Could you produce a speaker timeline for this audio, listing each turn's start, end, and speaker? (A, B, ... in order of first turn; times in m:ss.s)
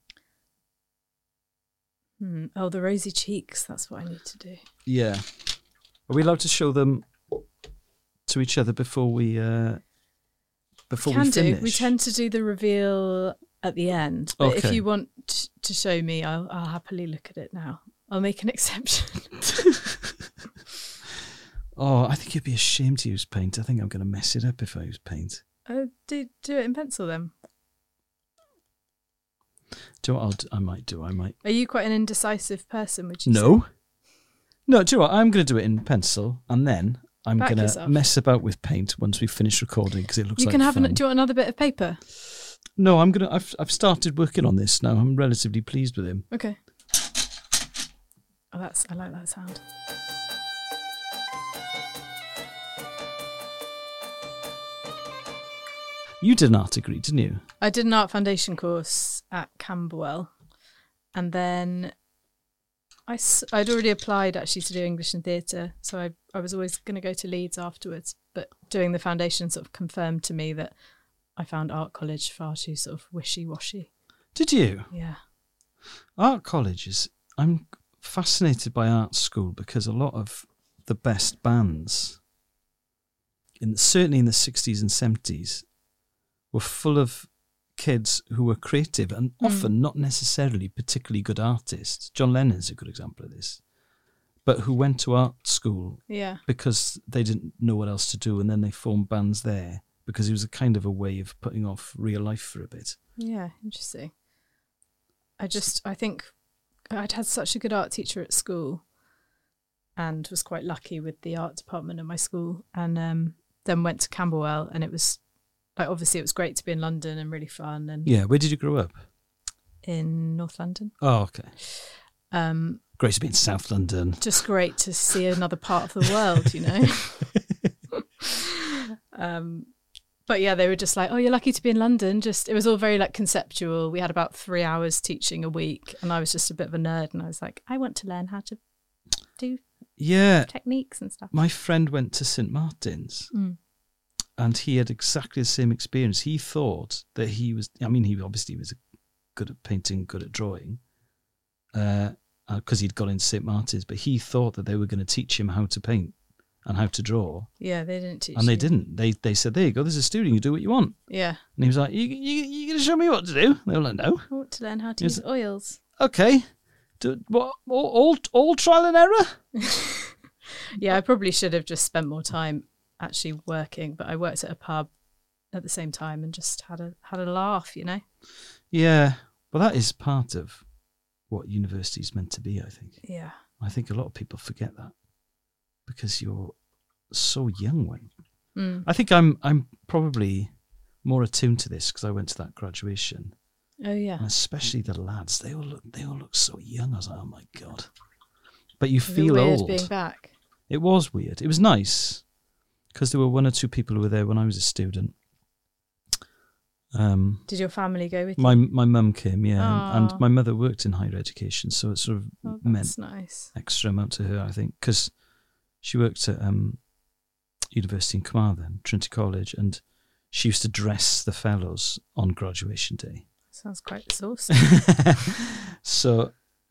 0:02.2-0:04.6 A
0:04.8-0:05.2 B
0:06.1-0:07.1 B
0:08.3-0:09.8 B
0:10.9-0:11.9 B
0:11.0-0:19.7 A
0:14.4-0:14.8 B
0:21.8-0:25.4 B
0:25.7-0:27.3 A
0:30.0-0:31.4 B
0:31.4-0:33.6 A
0:33.2-0:33.7 B
0:34.6-0:41.0 B
0:37.4-0:38.0 A
0:40.4-0:42.0 A
0:42.8-0:46.3 B
0:46.3-0:46.6 A
0:48.5-0:49.6 A
0:56.2-0:57.4 B
0:57.6-1:00.3 A
1:01.1-1:01.9 A
1:03.1-1:10.7 A
1:11.4-1:13.9 A
1:14.3-1:14.9 B
1:14.9-1:15.2 A
1:16.2-1:22.2 B
1:23.6-1:25.6 B
1:26.5-1:33.6 B
1:29.4-1:29.7 A
1:34.4-1:43.0 B
1:36.1-1:36.4 A
1:43.2-1:44.1 A
1:45.4-1:46.3 A
1:46.9-1:48.8 A
1:50.0-1:55.2 A
1:55.8-1:58.1 A
1:58.0-1:59.0 B
1:59.8-2:00.9 A
2:01.0-2:01.5 B
2:02.3-2:02.8 A
2:03.0-2:04.3 B
2:04.2-2:07.2 A
2:07.9-2:09.7 A
2:10.3-2:18.6 A
2:20.0-2:20.5 B
2:20.5-2:21.3 A
2:21.3-2:23.3 B
2:23.3-2:23.6 A
2:24.4-2:28.8 B
2:29.3-2:30.8 B
2:31.7-2:36.1 B
2:36.6-2:37.5 B
2:37.6-2:38.7 A
2:38.3-2:41.0 B
2:41.1-2:41.4 A
2:41.6-2:44.3 B
2:44.3-2:45.8 A
2:46.0-2:46.5 B
2:47.0-2:49.4 B
2:49.6-2:50.1 A
2:50.7-2:54.9 A
2:55.5-2:58.0 A
2:58.7-3:00.6 B
3:01.3-3:03.0 B
3:03.0-3:03.4 A
3:03.6-3:04.9 B
3:05.8-3:06.5 B
3:07.1-3:08.1 B
3:08.6-3:08.8 A
3:08.8-3:10.5 B
3:11.0-3:13.3 B
3:13.8-3:14.2 A
3:14.2-3:17.9 B
3:18.8-3:19.9 B
3:19.1-3:20.3 A
3:20.7-3:22.2 B
3:22.9-3:25.1 B
3:26.9-3:27.5 B
3:27.5-3:28.6 A
3:28.4-3:35.1 B
3:29.6-3:30.2 A
3:32.4-3:33.5 A
3:35.8-3:36.8 B
3:37.7-3:43.2 B
3:43.5-3:44.7 A
3:44.5-3:46.3 B